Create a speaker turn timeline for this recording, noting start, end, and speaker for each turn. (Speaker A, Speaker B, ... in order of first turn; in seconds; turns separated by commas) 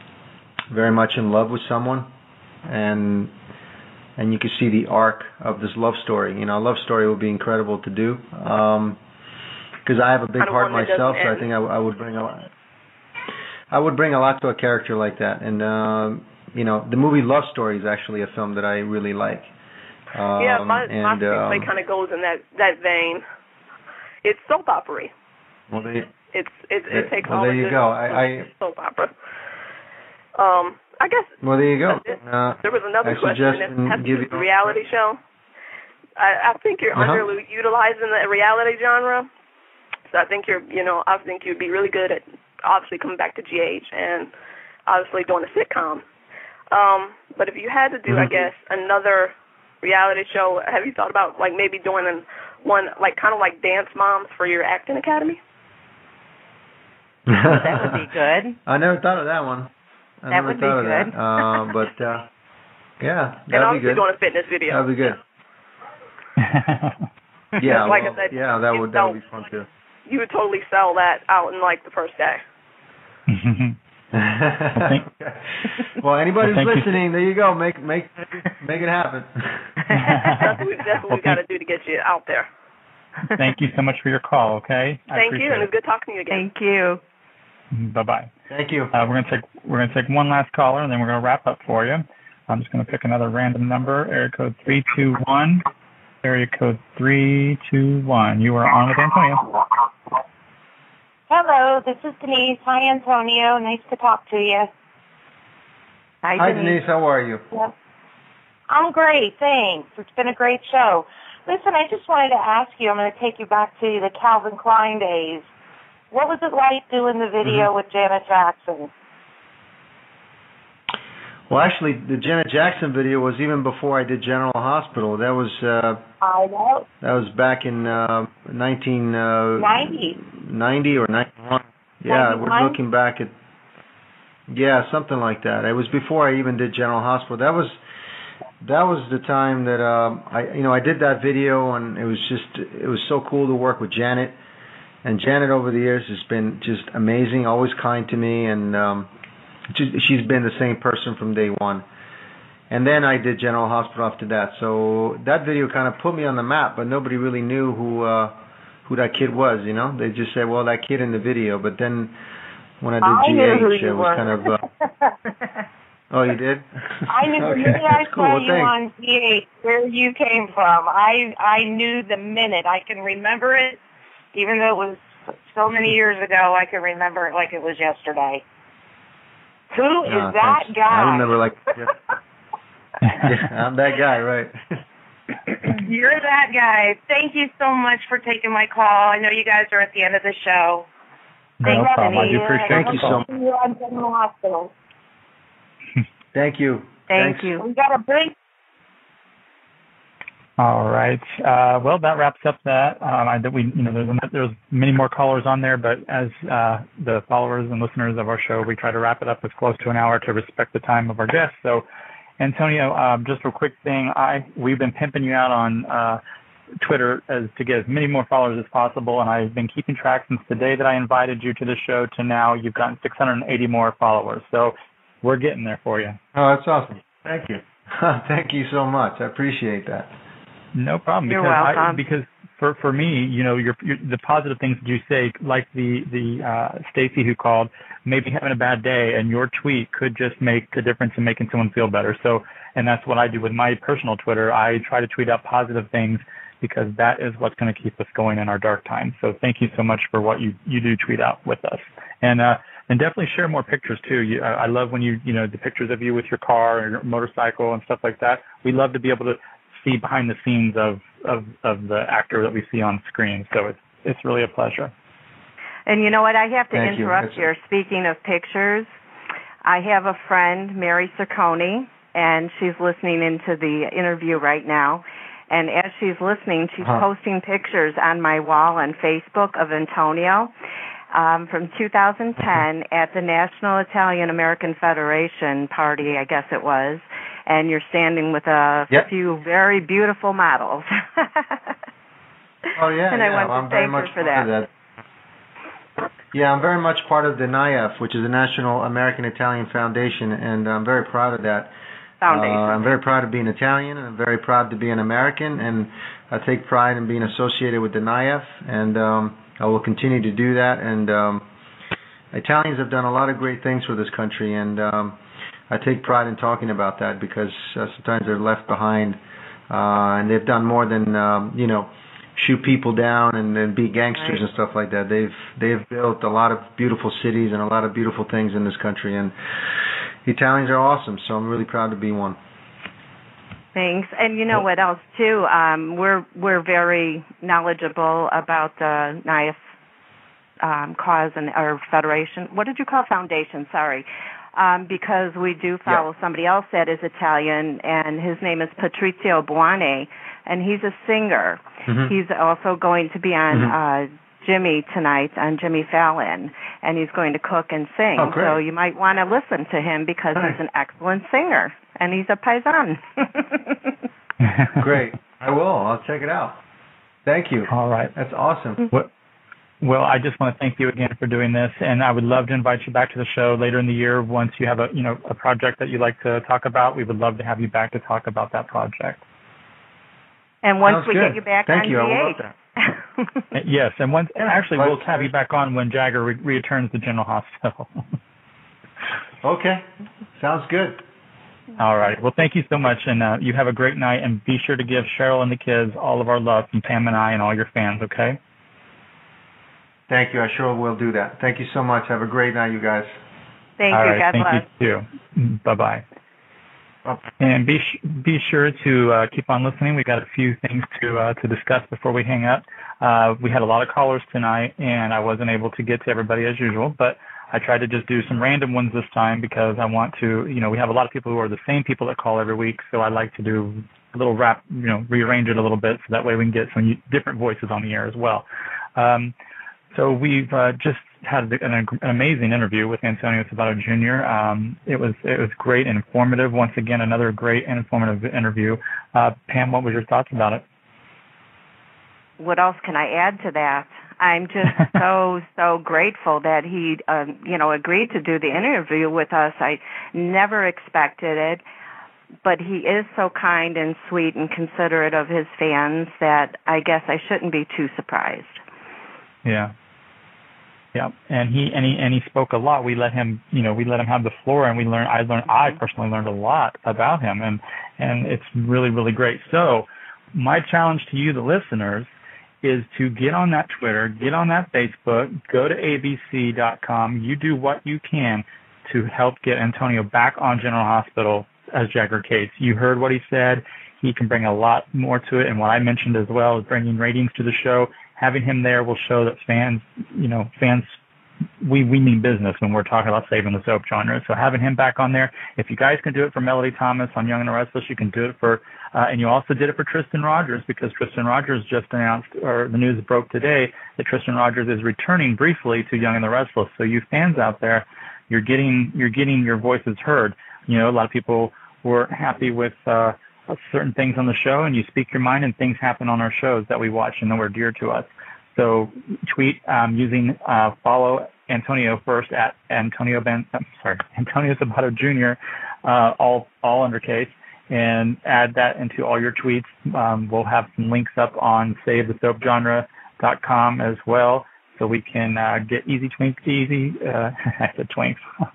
Speaker A: 0.7-2.1, Speaker A: 2.7-3.3, Speaker A: 4.2-9.0, Speaker A: 9.8-12.5, Speaker B: 10.4-11.5, Speaker A: 13.7-19.5, Speaker A: 20.1-21.7, Speaker B: 20.4-23.2, Speaker B: 24.2-25.1, Speaker A: 25.7-26.1, Speaker B: 26.3-29.1, Speaker A: 26.9-28.5, Speaker B: 30.4-35.2, Speaker A: 31.4-34.7, Speaker B: 36.2-39.3, Speaker A: 36.9-37.3, Speaker B: 40.1-44.3, Speaker B: 44.9-46.0, Speaker B: 46.7-55.4, Speaker A: 57.3-58.0, Speaker C: 57.4-58.6, Speaker A: 58.7-59.7, Speaker A: 60.2-62.3, Speaker C: 60.3-61.1, Speaker A: 63.0-64.1, Speaker B: 63.5-64.8, Speaker A: 64.7-65.2, Speaker D: 66.4-67.0, Speaker B: 67.6-69.2, Speaker A: 67.6-69.7, Speaker B: 70.1-72.4, Speaker D: 73.3-73.8, Speaker A: 74.1-79.6, Speaker D: 74.8-75.0, Speaker D: 76.4-77.0, Speaker D: 79.9-80.5, Speaker B: 80.3-82.5, Speaker D: 81.1-81.4, Speaker D: 83.3-85.7, Speaker B: 85.1-86.5, Speaker C: 86.3-87.0, Speaker D: 87.7-88.3, Speaker A: 88.5-88.9, Speaker D: 88.9-95.6, Speaker D: 96.2-99.5, Speaker E: 101.3-104.7, Speaker C: 106.2-106.8, Speaker A: 106.4-107.4, Speaker E: 108.7-115.5, Speaker E: 116.1-118.9, Speaker A: 121.5-126.0, Speaker E: 126.2-126.9, Speaker A: 127.0-133.3, Speaker E: 129.6-130.2, Speaker E: 132.1-132.8, Speaker A: 134.5-137.8, Speaker A: 138.6-144.4, Speaker A: 145.0-149.1, Speaker A: 149.7-151.8, Speaker A: 152.7-158.3, Speaker A: 158.9-162.2, Speaker A: 162.8-164.6, Speaker E: 163.0-165.1, Speaker A: 166.1-168.7, Speaker E: 167.1-173.8, Speaker E: 174.3-178.4, Speaker E: 179.7-181.3, Speaker A: 180.1-181.9, Speaker A: 183.2-184.6, Speaker E: 185.7-190.9, Speaker D: 191.6-193.2, Speaker E: 191.6-194.7, Speaker A: 192.7-193.3, Speaker A: 196.3-197.6, Speaker C: 197.1-197.6, Speaker E: 197.5-198.3, Speaker D: 200.6-211.8, Speaker D: 212.4-216.2, Speaker D: 216.8-226.2, Speaker A: 226.3-230.1, Speaker D: 230.8-264.9, Speaker C: 231.3-232.0, Speaker C: 265.9-268.9, Speaker A: 266.7-267.5, Speaker C: 269.6-280.5, Speaker C: 281.1-291.6, Speaker A: 292.8-294.7, Speaker C: 293.1-294.5, Speaker A: 296.3-301.7, Speaker C: 302.2-303.0, Speaker A: 302.3-311.4, Speaker A: 312.3-315.2, Speaker A: 315.7-319.2, Speaker A: 319.7-329.3, Speaker A: 330.2-332.4, Speaker C: 333.8-339.6, Speaker C: 340.6-363.9, Speaker A: 351.9-352.1, Speaker A: 358.2-358.6, Speaker A: 364.8-366.6, Speaker A: 367.2-368.9, Speaker D: 367.7-368.1, Speaker D: 369.8-379.2, Speaker C: 380.6-383.5, Speaker A: 380.9-382.5, Speaker D: 383.5-388.0, Speaker A: 384.4-385.3, Speaker A: 389.4-389.9, Speaker A: 390.4-391.0, Speaker D: 391.8-398.4, Speaker A: 400.1-403.1, Speaker C: 403.8-404.7, Speaker D: 403.9-406.0, Speaker D: 407.4-428.4, Speaker D: 429.0-429.3, Speaker D: 429.9-440.6, Speaker C: 442.4-451.6, Speaker C: 452.4-458.6, Speaker D: 459.4-459.7, Speaker D: 460.9-472.1, Speaker D: 472.6-491.0, Speaker D: 491.6-538.2